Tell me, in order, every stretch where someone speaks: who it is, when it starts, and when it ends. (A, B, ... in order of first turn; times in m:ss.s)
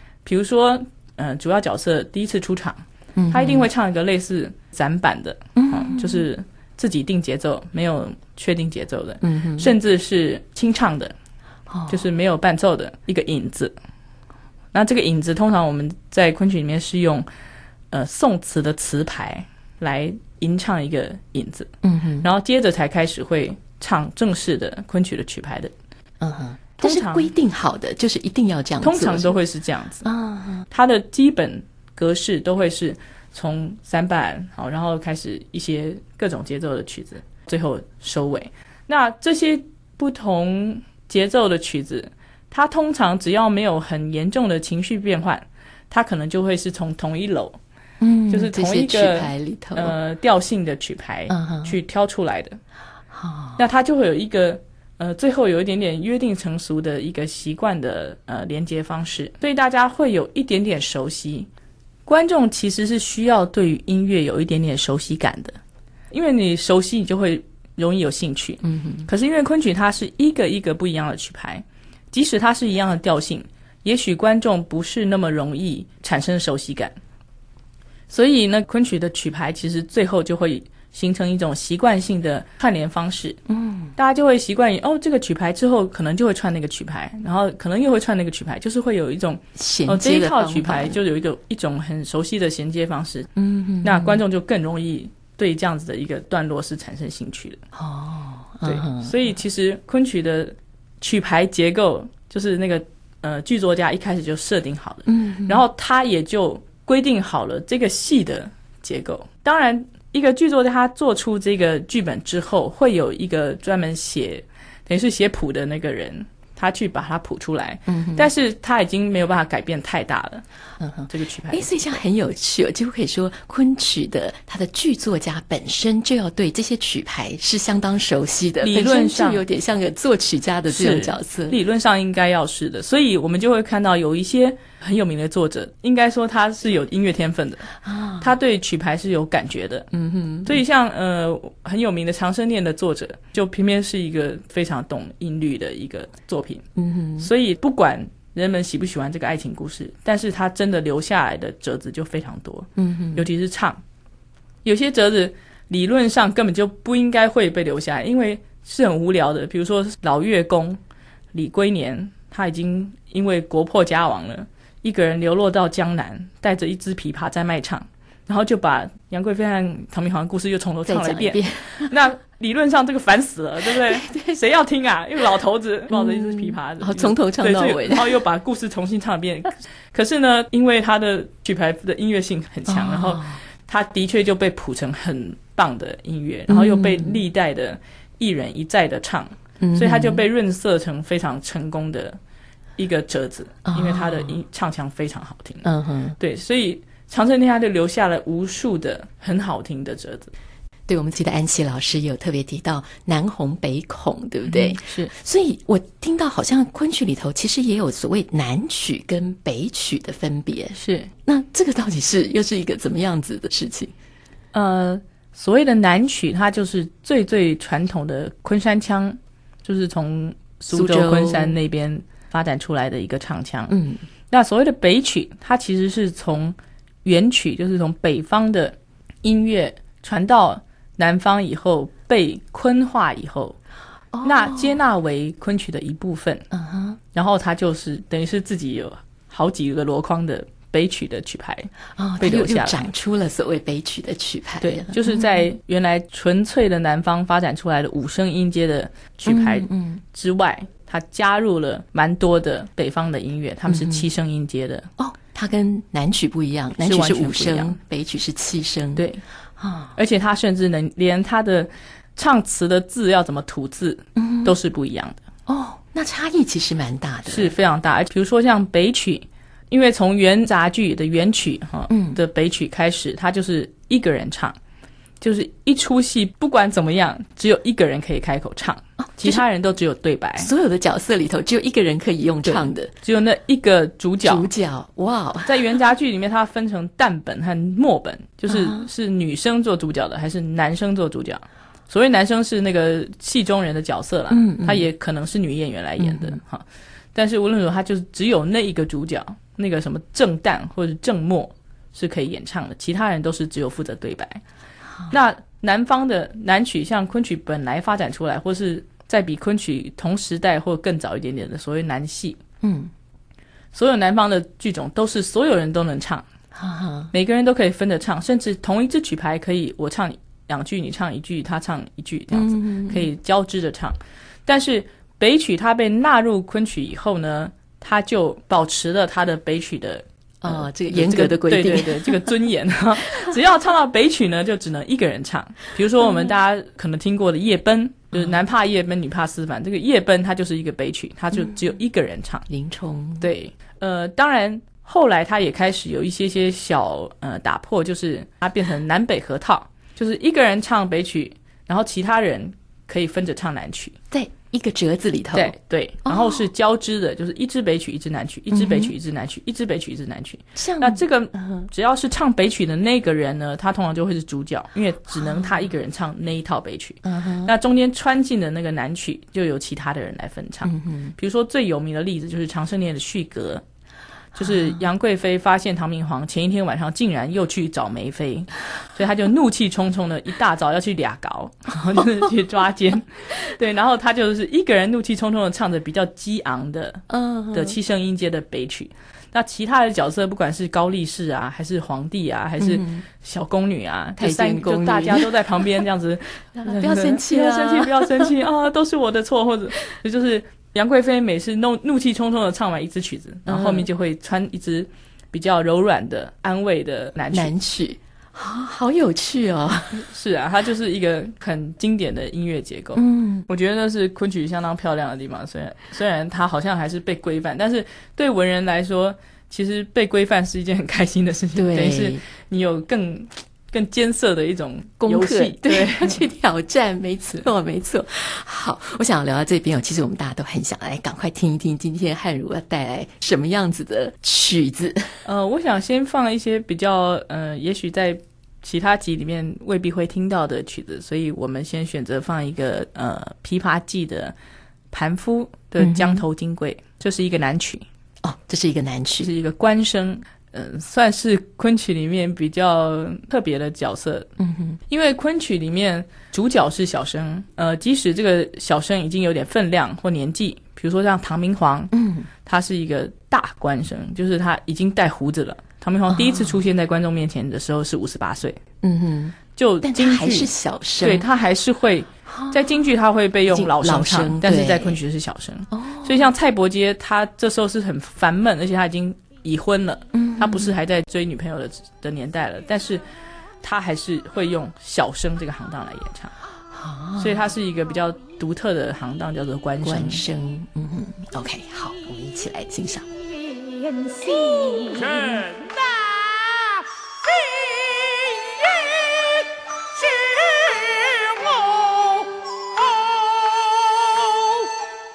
0:00.2-0:11.1 A
0:03.2-0:03.7 B
0:05.6-0:06.2 B
0:09.2-0:09.7 B
0:11.7-0:12.0 B
0:11.9-0:13.7 A
0:14.7-0:17.3 A
0:17.9-0:21.7 A
0:21.8-0:22.3 B
0:22.2-0:25.7 A
0:26.2-0:29.3 B
0:26.8-0:27.3 A
0:28.8-0:30.1 A
0:30.0-0:30.7 B
0:30.7-0:47.6 A
0:48.0-0:50.0 B
0:48.3-0:52.6 A
0:51.3-0:51.8 B
0:53.1-0:53.6 B
0:53.6-1:01.5 A
1:02.1-1:05.6 A
1:06.1-1:17.0 A
1:08.6-1:09.1 B
1:18.1-1:23.4 A
1:23.5-1:24.0 B
1:24.0-1:33.3 A
1:29.6-1:31.0 B
1:33.4-1:34.2 B
1:33.8-1:37.6 A
1:37.8-1:39.2 B
1:38.6-2:00.4 A
1:45.1-1:45.6 B
1:57.9-1:58.3 B
2:00.8-2:11.6 B
2:01.1-2:01.7 A
2:08.6-2:09.4 A
2:10.7-2:19.9 A
2:17.8-2:18.3 B
2:19.9-2:20.6 B
2:20.4-2:26.7 A
2:26.8-2:27.3 B
2:27.2-2:33.8 A
2:32.8-2:33.3 B
2:34.6-2:40.8 A
2:41.3-3:12.2 A
2:50.9-2:51.9 B
2:53.7-2:54.4 B
2:55.9-2:58.2 B
3:02.7-3:03.4 B
3:06.5-3:07.2 B
3:09.6-3:10.2 B
3:12.8-3:15.7 A
3:13.7-3:14.4 B
3:15.6-3:16.2 B
3:16.2-3:20.3 A
3:20.9-3:33.9 B
3:24.5-3:25.1 A
3:30.8-3:31.1 A
3:34.5-3:43.8 A
3:40.7-3:41.6 B
3:43.7-3:44.0 B
3:44.3-3:53.6 A
3:54.1-3:54.8 B
3:54.2-3:56.5 A
3:56.5-3:57.0 B
3:57.1-4:02.9 A
4:02.0-4:05.4 B
4:04.6-4:14.9 A
4:09.3-4:10.0 B
4:13.7-4:14.1 B
4:15.0-4:19.1 B
4:16.8-4:17.8 A
4:19.0-4:19.2 A
4:19.6-4:19.9 B
4:20.0-4:25.2 A
4:24.2-4:24.6 B
4:25.5-4:27.5 B
4:27.3-4:34.6 A
4:31.9-4:32.2 B
4:35.2-4:40.5 A
4:39.0-4:39.4 B
4:40.4-4:42.9 B
4:42.4-4:44.5 A
4:44.2-4:45.6 B
4:45.5-5:04.4 A
4:48.5-4:48.9 B
4:54.3-4:54.9 B
4:56.0-4:56.4 B
5:05.1-5:12.4 A
5:12.6-5:12.9 B
5:13.7-5:16.3 A
5:16.6-5:17.1 B
5:17.1-5:42.5 A
5:22.3-5:23.1 B
5:30.4-5:32.3 B
5:42.5-5:43.3 B
5:43.2-5:54.0 A
5:54.1-5:55.6 B
5:55.3-6:13.6 A
5:56.1-5:56.4 B
5:58.5-5:58.9 B
6:00.6-6:01.7 B
6:05.1-6:05.5 B
6:07.0-6:07.5 B
6:10.6-6:11.2 B
6:14.4-6:47.5 A
6:14.4-6:14.8 B
6:27.1-6:27.8 B
6:32.6-6:33.0 B
6:34.2-6:35.3 B
6:36.6-6:38.3 B
6:43.5-6:43.9 B
6:47.3-6:50.0 B
6:49.9-7:06.2 A
6:53.0-6:53.5 B
7:01.6-7:02.2 B
7:05.0-7:15.2 B
7:15.2-7:24.3 A
7:24.9-7:27.8 A
7:25.8-7:26.2 B
7:28.2-7:29.3 B
7:29.2-7:34.3 A
7:34.4-7:34.8 B
7:34.9-7:41.9 A
7:41.9-7:42.3 B
7:42.4-7:48.6 A
7:46.1-7:46.6 B
7:48.8-7:51.3 B
7:49.6-8:03.0 A
7:52.3-7:52.8 B
7:53.5-7:55.0 B
7:55.7-7:56.3 B
8:00.1-8:00.7 B
8:03.6-8:06.3 A
8:06.7-8:07.5 B
8:07.2-8:10.3 A
8:09.8-8:13.1 B
8:13.9-8:24.8 C
8:14.4-8:15.2 B